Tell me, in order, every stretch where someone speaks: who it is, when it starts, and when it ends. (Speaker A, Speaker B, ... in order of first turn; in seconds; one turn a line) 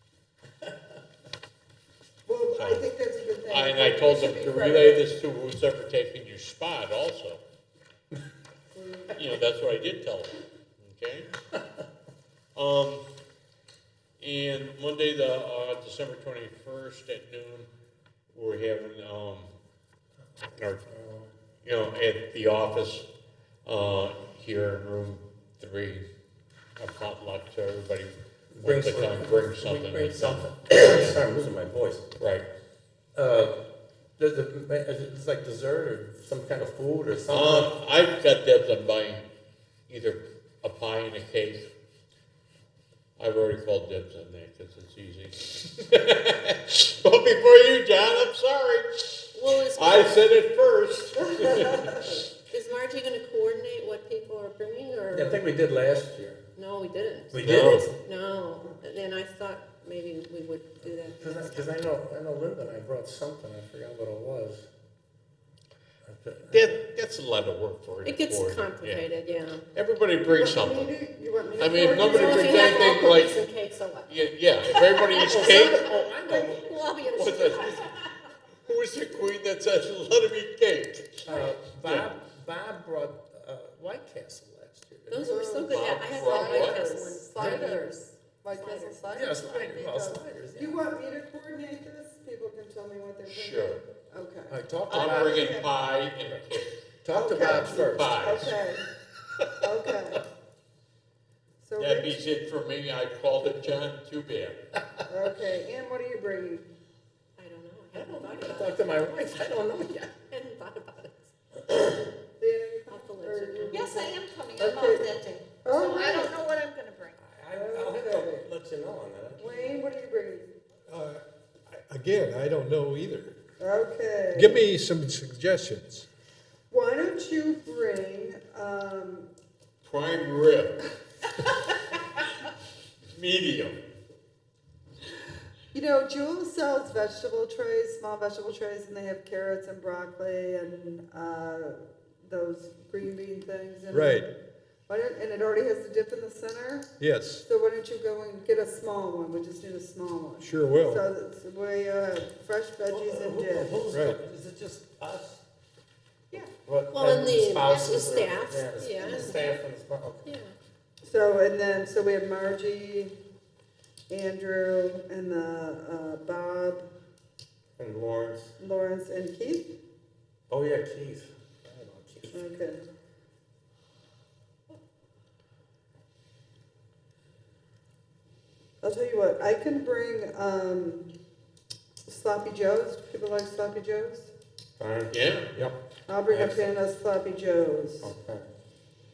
Speaker A: 2.2-5.1
Speaker B: 2.6-2.9
Speaker B: 3.5-7.4
Speaker A: 8.7-9.2
Speaker B: 9.1-11.3
Speaker B: 12.5-13.0
Speaker B: 14.2-17.7
Speaker B: 18.3-19.5
Speaker B: 20.6-20.8
Speaker C: 20.9-21.3
Speaker B: 21.6-23.1
Speaker B: 23.6-26.1
Speaker B: 26.8-31.2
Speaker C: 28.5-32.1
Speaker B: 32.2-32.5
Speaker C: 33.1-33.7
Speaker C: 34.2-37.7
Speaker B: 37.3-39.2
Speaker B: 39.9-41.7
Speaker B: 43.2-52.2
Speaker D: 49.3-50.3
Speaker D: 52.5-55.5
Speaker C: 55.1-56.4
Speaker D: 56.5-61.8
Speaker C: 57.3-57.9
Speaker B: 57.4-57.9
Speaker C: 60.9-64.7
Speaker C: 66.0-66.8
Speaker B: 66.5-69.0
Speaker D: 68.0-69.7
Speaker B: 69.7-70.9
Speaker A: 70.3-73.2
Speaker B: 71.6-73.4
Speaker D: 72.0-74.1
Speaker B: 74.1-75.9
Speaker D: 74.7-78.2
Speaker C: 75.1-77.6
Speaker A: 76.2-76.5
Speaker B: 77.1-78.0
Speaker B: 78.7-82.1
Speaker C: 81.3-85.4
Speaker D: 85.1-89.0
Speaker A: 85.1-95.7
Speaker B: 85.7-87.0
Speaker C: 89.1-90.9
Speaker B: 93.3-93.8
Speaker C: 94.5-95.6
Speaker B: 94.9-96.8
Speaker C: 97.0-98.3
Speaker A: 97.1-98.8
Speaker B: 97.3-98.5
Speaker A: 99.6-100.2
Speaker A: 101.6-102.2
Speaker B: 101.8-104.6
Speaker A: 105.1-106.7
Speaker D: 107.4-108.9
Speaker C: 107.9-110.1
Speaker D: 110.3-111.3
Speaker A: 112.4-114.0
Speaker D: 112.9-114.2
Speaker E: 113.7-117.2
Speaker A: 114.6-115.1
Speaker A: 115.6-116.4
Speaker C: 117.2-119.8
Speaker A: 117.5-118.4
Speaker A: 119.4-120.5
Speaker F: 120.9-123.3
Speaker A: 123.6-124.6
Speaker F: 124.3-126.0
Speaker A: 126.7-129.3
Speaker B: 129.8-130.8
Speaker B: 133.1-133.8
Speaker A: 135.7-144.3
Speaker F: 143.9-144.3
Speaker A: 144.9-146.9
Speaker F: 147.0-147.4
Speaker A: 147.4-153.8
Speaker F: 150.4-151.0
Speaker C: 152.9-155.4
Speaker F: 153.9-154.2
Speaker C: 156.5-160.3
Speaker D: 156.9-159.6
Speaker D: 160.2-160.5
Speaker A: 161.0-163.2
Speaker A: 164.1-166.9
Speaker C: 167.8-168.5
Speaker A: 168.6-169.8
Speaker C: 170.5-172.5
Speaker A: 172.3-172.8
Speaker A: 178.8-181.1
Speaker A: 182.0-184.3
Speaker C: 184.8-185.8
Speaker B: 185.1-185.5
Speaker A: 186.1-188.1
Speaker C: 186.3-186.7
Speaker C: 188.0-188.5